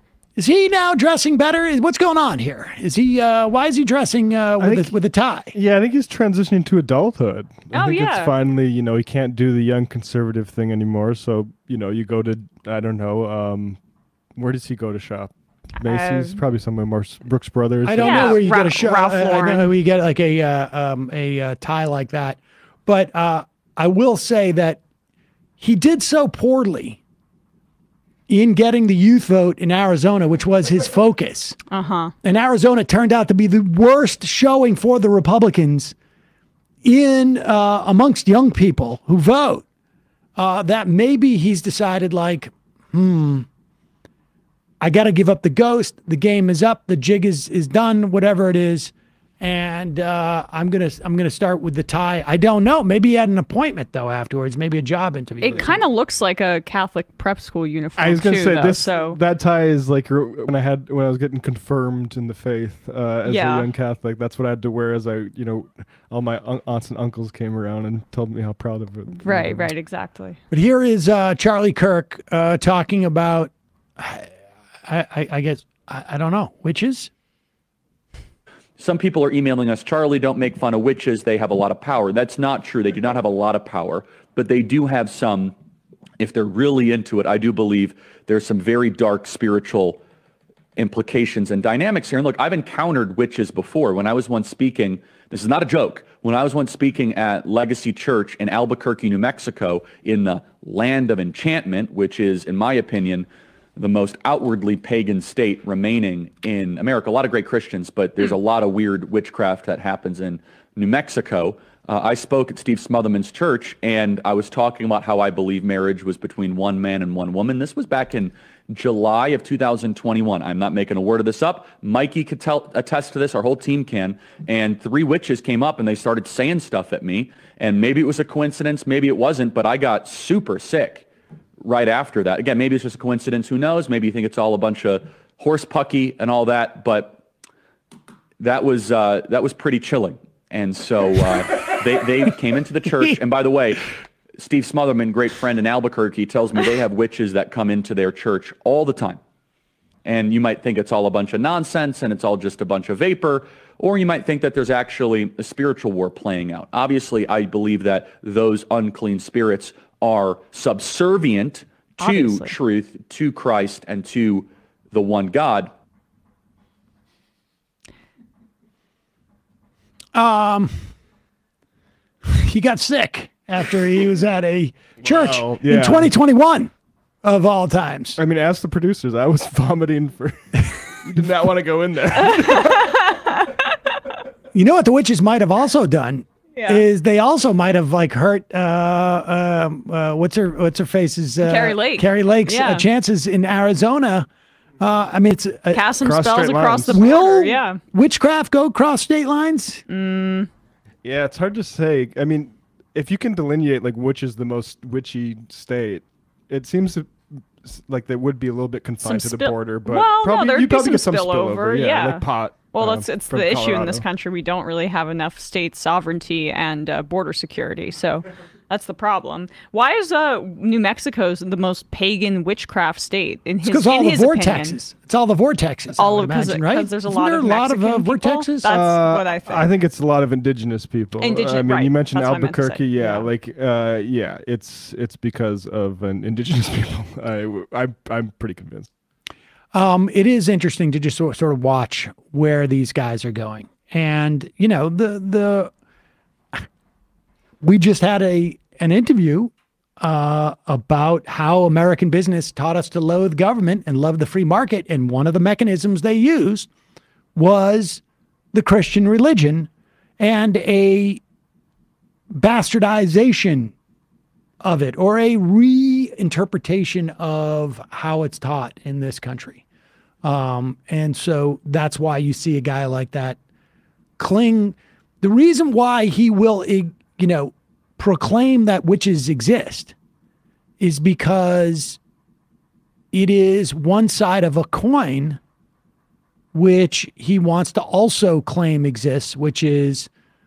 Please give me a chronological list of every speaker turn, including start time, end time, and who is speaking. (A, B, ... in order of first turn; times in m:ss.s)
0:00.4-0:05.5 A
0:04.6-0:04.9 B
0:05.5-0:13.8 B
0:07.7-0:08.3 C
0:14.4-0:18.4 B
0:15.8-0:16.4 C
0:17.8-0:24.8 A
0:18.0-0:19.7 C
0:25.6-0:27.0 A
0:28.3-0:31.6 A
0:31.7-0:32.1 C
0:32.2-0:35.9 A
0:36.8-0:39.6 A
0:40.4-0:43.5 A
0:44.8-0:55.8 A
0:55.4-0:59.2 C
0:58.0-1:09.7 B
1:03.2-1:03.7 C
1:09.2-1:10.4 C
1:10.5-1:14.3 A
1:14.8-1:17.1 A
1:18.8-1:25.5 D
1:26.2-1:30.0 D
1:30.8-2:11.0 D
2:11.6-2:17.2 D
2:18.4-2:29.2 D
2:30.0-2:45.7 D
2:42.0-2:42.5 C
2:50.1-2:50.9 A
2:52.2-2:56.7 A
2:55.0-2:56.1 B
2:57.2-2:58.2 A
2:58.2-3:02.9 B
3:02.3-3:03.6 C
3:04.5-3:14.3 A
3:06.6-3:06.8 C
3:11.4-3:12.8 C
3:14.8-3:15.8 A
3:15.7-3:17.8 C
3:16.0-3:17.0 B
3:16.9-3:19.8 A
3:19.9-3:20.5 C
3:21.0-3:34.0 B
3:29.0-3:44.8 C
3:43.6-3:48.7 A
3:46.0-3:49.7 C
3:48.6-3:58.9 B
3:51.2-3:53.1 C
3:59.7-4:05.7 A
4:07.6-4:16.7 A
4:17.3-4:18.0 A
4:18.5-4:21.2 A
4:22.3-4:23.7 A
4:24.6-4:29.6 A
4:30.2-4:33.4 A
4:34.2-4:39.9 A
4:40.8-4:42.0 A
4:43.1-4:45.4 A
4:46.5-4:50.1 A